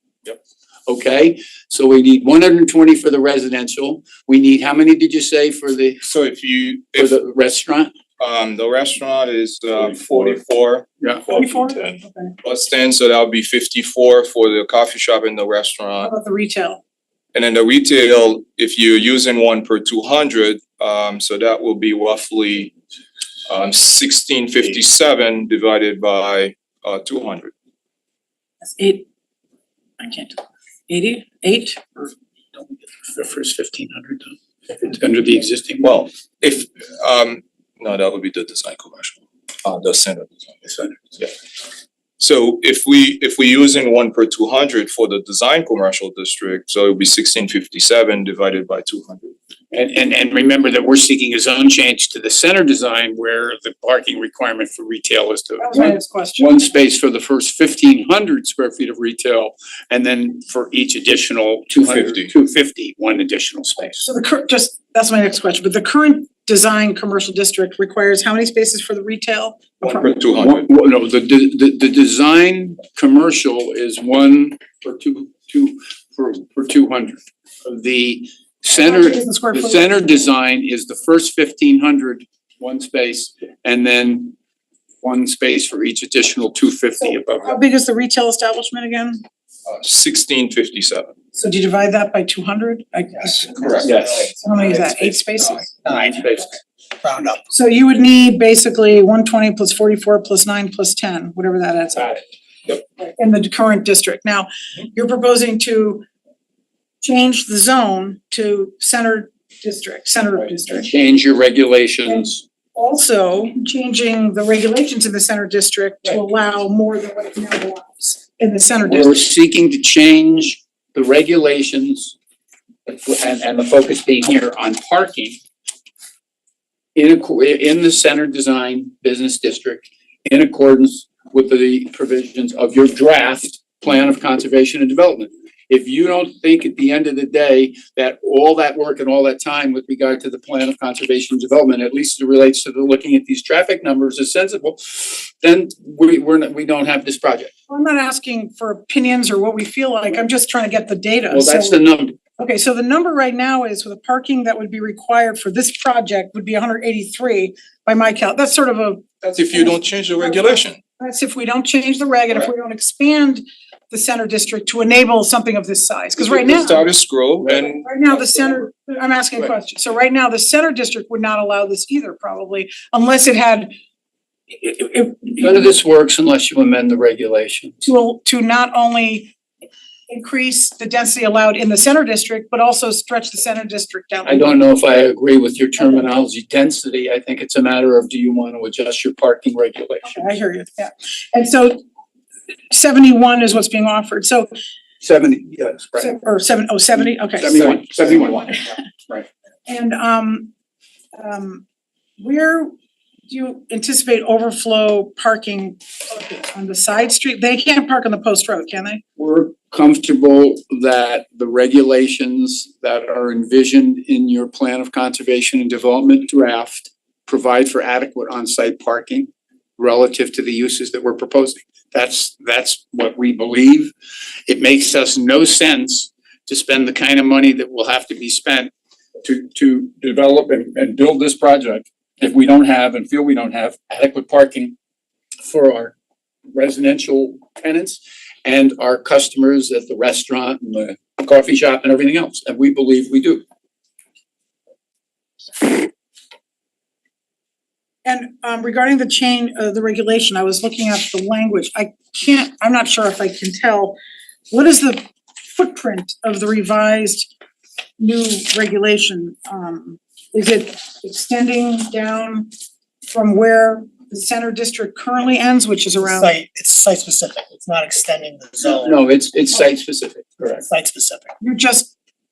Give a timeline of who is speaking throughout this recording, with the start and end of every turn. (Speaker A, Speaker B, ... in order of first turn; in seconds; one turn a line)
Speaker A: 0.9-6.0
Speaker B: 6.0-7.2
Speaker A: 7.0-7.9
Speaker B: 8.2-16.1
Speaker C: 11.3-12.3
Speaker C: 16.0-16.8
Speaker B: 17.3-22.7
Speaker B: 23.5-27.5
Speaker C: 28.8-29.1
Speaker C: 30.0-30.4
Speaker C: 30.9-32.1
Speaker A: 33.0-35.9
Speaker B: 35.8-41.3
Speaker B: 42.2-49.3
Speaker A: 49.7-64.1
Speaker C: 55.6-56.5
Speaker B: 61.8-62.3
Speaker C: 64.0-70.2
Speaker B: 69.8-70.6
Speaker A: 70.4-84.3
Speaker C: 78.8-79.9
Speaker A: 85.0-87.6
Speaker C: 87.0-89.2
Speaker B: 89.7-91.1
Speaker C: 91.3-96.4
Speaker D: 93.4-94.3
Speaker B: 93.5-94.0
Speaker A: 93.8-94.3
Speaker D: 95.8-96.4
Speaker A: 95.9-96.5
Speaker D: 97.0-97.5
Speaker C: 97.5-102.2
Speaker C: 103.0-106.0
Speaker C: 107.0-110.9
Speaker A: 110.4-112.4
Speaker C: 112.1-119.2
Speaker A: 118.9-122.2
Speaker A: 122.8-125.4
Speaker A: 126.9-147.5
Speaker C: 147.7-151.8
Speaker A: 151.3-152.2
Speaker C: 152.4-166.9
Speaker B: 159.2-160.8
Speaker B: 166.2-168.4
Speaker A: 167.4-167.7
Speaker C: 167.8-173.7
Speaker C: 174.5-175.7
Speaker A: 175.4-177.8
Speaker C: 177.8-179.3
Speaker C: 180.1-184.6
Speaker A: 184.2-190.2
Speaker C: 190.1-191.8
Speaker C: 192.7-194.5
Speaker A: 195.0-196.2
Speaker C: 196.0-198.7
Speaker A: 197.4-199.3
Speaker C: 199.7-200.5
Speaker C: 201.2-201.6
Speaker C: 202.2-202.7
Speaker C: 203.3-209.0
Speaker A: 209.2-223.9
Speaker A: 224.5-228.7
Speaker A: 229.2-234.7
Speaker A: 235.4-235.9
Speaker A: 236.5-243.4
Speaker C: 248.0-254.0
Speaker C: 254.5-257.3
Speaker C: 258.0-262.5
Speaker C: 263.1-266.3
Speaker D: 266.0-269.0
Speaker A: 268.6-270.6
Speaker D: 270.6-271.3
Speaker C: 271.4-271.9